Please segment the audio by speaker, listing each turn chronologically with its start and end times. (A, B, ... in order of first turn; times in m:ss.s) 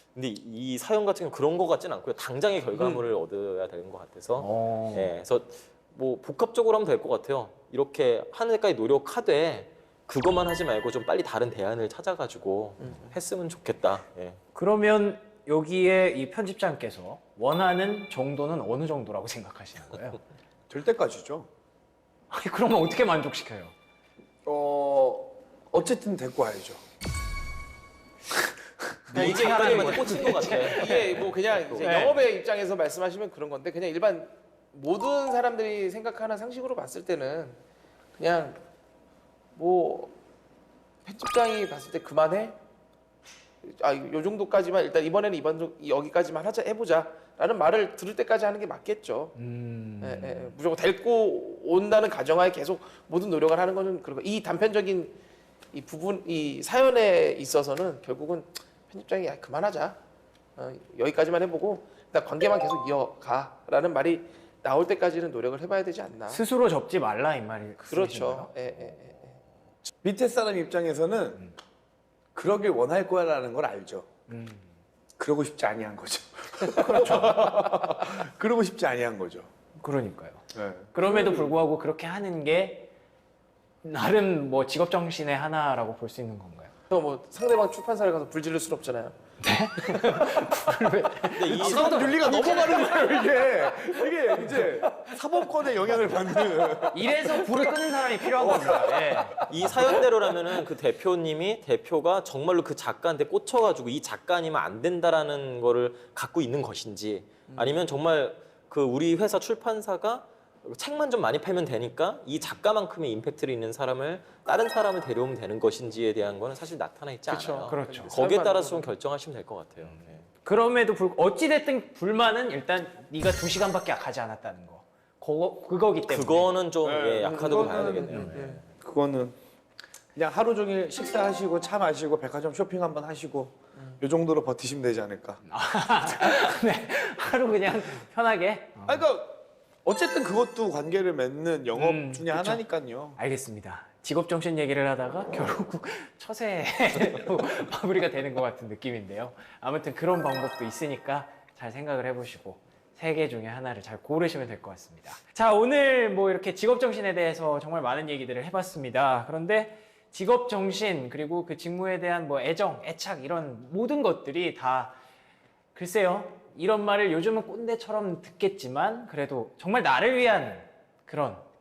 0:00.1-0:14.4 A
0:04.4-0:05.1 B
0:12.8-0:13.1 C
0:14.5-0:20.2 B
0:20.7-0:21.5 D
0:22.3-0:23.7 B
0:24.4-0:26.8 D
0:28.3-0:29.0 D
0:29.1-0:31.2 B
0:29.1-0:32.2 A
0:29.1-0:37.6 C
0:31.8-0:32.2 B
0:38.2-0:38.6 C
0:39.6-0:40.1 C
0:41.0-0:42.6 C
0:43.6-0:49.4 C
0:49.4-0:50.5 B
0:50.0-0:55.2 C
0:55.7-1:00.0 C
1:00.6-1:06.4 C
1:06.3-1:08.5 B
1:07.8-1:09.4 C
1:10.0-1:11.4 D
1:12.3-1:14.1 D
1:14.3-1:14.6 B
1:15.2-1:19.5 D
1:16.6-1:17.4 B
1:17.0-1:17.9 C
1:19.8-1:22.9 B
1:20.5-1:20.9 D
1:21.0-1:21.5 C
1:23.8-1:26.7 B
1:26.9-1:29.2 C
1:29.4-1:34.7 B
1:30.0-1:30.4 C
1:31.3-1:33.1 A
1:31.5-1:40.0 D
1:36.9-1:39.5 B
1:39.4-2:00.2 A
1:47.5-1:47.8 C
1:57.3-1:58.9 C
1:57.7-1:58.2 B
2:00.4-2:06.5 B
2:06.1-2:08.6 A
2:06.8-2:09.4 D
2:07.2-2:08.6 C
2:08.1-2:08.4 B
2:10.1-2:15.4 D
2:15.5-2:19.0 B
2:18.8-2:23.2 D
2:21.7-2:22.6 B
2:23.2-2:45.0 B
2:45.7-2:51.4 B